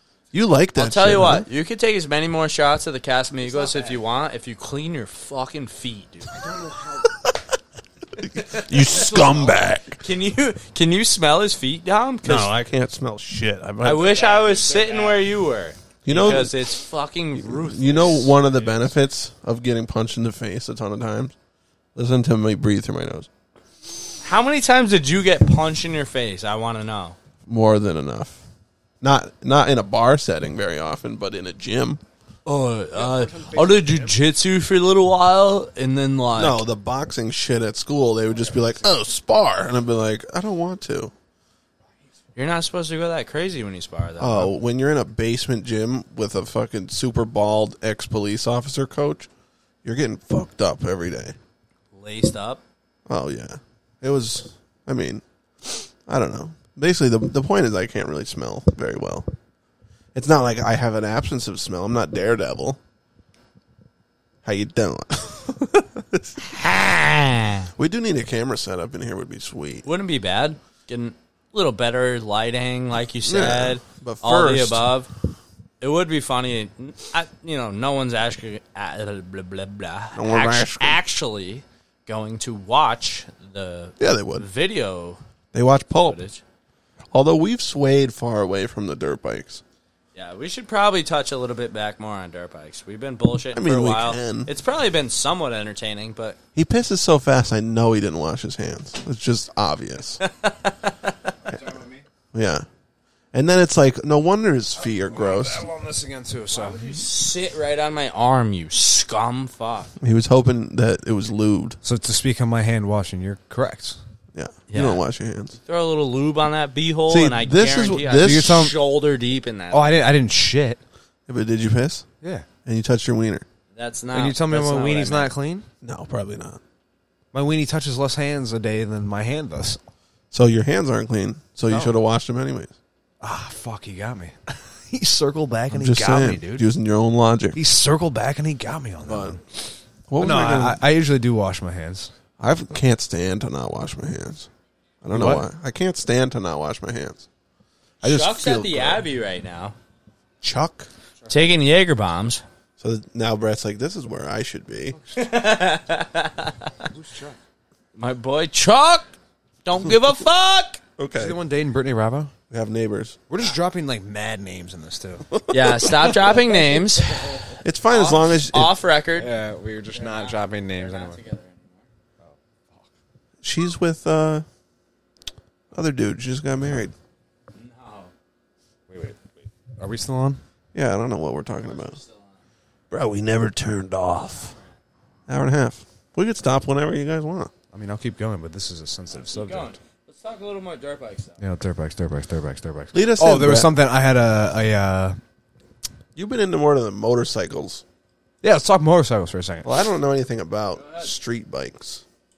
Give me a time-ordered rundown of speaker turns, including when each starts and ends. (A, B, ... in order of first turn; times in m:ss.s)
0:00.3-0:01.5 A
0:00.8-0:06.4 B
0:03.4-0:04.0 C
0:06.3-0:07.1 C
0:07.1-0:07.4 A
0:08.4-0:10.0 A
0:08.4-0:12.5 B
0:08.9-0:09.6 C
0:12.2-0:14.2 A
0:13.8-0:18.8 B
0:14.1-0:15.2 C
0:16.0-0:16.6 A
0:17.4-0:21.4 A
0:22.0-0:23.3 A
0:24.2-0:27.2 B
0:27.5-0:28.4 A
0:29.0-0:32.0 A
0:32.5-0:36.6 B
0:33.0-0:34.2 C
0:36.4-0:41.1 A
0:42.4-0:44.5 B
0:44.2-0:49.3 A
0:49.8-0:51.4 A
0:51.9-0:52.6 B
0:53.1-0:59.3 A
1:00.2-1:02.8 A
1:04.4-1:06.4 A
1:06.4-1:07.7 B
1:07.8-1:09.9 A
1:09.8-1:15.1 B
1:13.2-1:14.9 A
1:15.8-1:25.2 B
1:20.1-1:21.0 A
1:24.0-1:24.5 A
1:25.5-1:26.2 A
1:26.0-1:26.4 B
1:27.1-1:29.6 A
1:30.2-1:36.4 B
1:33.5-1:34.5 A
1:36.6-1:40.2 A
1:40.2-1:41.3 B
1:41.4-1:42.0 C
1:42.3-1:42.7 A
1:43.3-1:45.7 A
1:44.9-1:46.9 C
1:46.5-1:50.0 B
1:50.0-1:51.8 A
1:51.8-1:54.0 C
1:54.3-1:55.6 A
1:54.7-1:55.0 B
1:55.6-2:00.0 B
1:57.1-1:58.7 A
1:58.2-1:58.8 C
1:59.7-2:00.8 C
2:01.3-2:02.1 A
2:02.2-2:02.5 C
2:02.6-2:03.4 A
2:03.7-2:05.3 B
2:04.1-2:05.7 C
2:05.8-2:06.6 A
2:07.3-2:09.8 C
2:10.3-2:12.7 A
2:11.7-2:12.0 C
2:13.2-2:16.7 C
2:15.7-2:17.6 A
2:17.6-2:22.1 C
2:19.0-2:19.4 A
2:20.1-2:20.8 A
2:22.4-2:24.5 A
2:25.0-2:27.3 A
2:25.1-2:25.4 C
2:28.0-2:29.1 A
2:28.0-2:29.8 B
2:30.4-2:30.9 A
2:31.3-2:32.4 B
2:32.8-2:35.0 A
2:35.0-2:35.3 C
2:35.2-2:36.7 B
2:36.9-2:37.4 C
2:38.0-2:40.8 B
2:41.0-2:41.4 A
2:41.2-2:42.3 C
2:42.5-2:43.2 A
2:43.3-2:45.3 C
2:45.3-2:46.4 A
2:45.5-2:49.3 B
2:47.6-2:48.8 A
2:49.2-2:51.2 C
2:49.9-2:51.9 B
2:52.2-2:52.9 C
2:53.4-2:54.4 A
2:55.7-2:56.9 A
2:57.5-2:58.1 B
2:58.9-3:00.4 C
3:00.7-3:02.0 A
3:01.6-3:02.4 B
3:02.9-3:04.6 A
3:05.3-3:07.5 A
3:07.7-3:09.8 C
3:09.2-3:11.4 B
3:11.4-3:15.2 C
3:12.9-3:13.7 A
3:16.2-3:17.8 A
3:18.4-3:19.7 C
3:19.6-3:22.0 A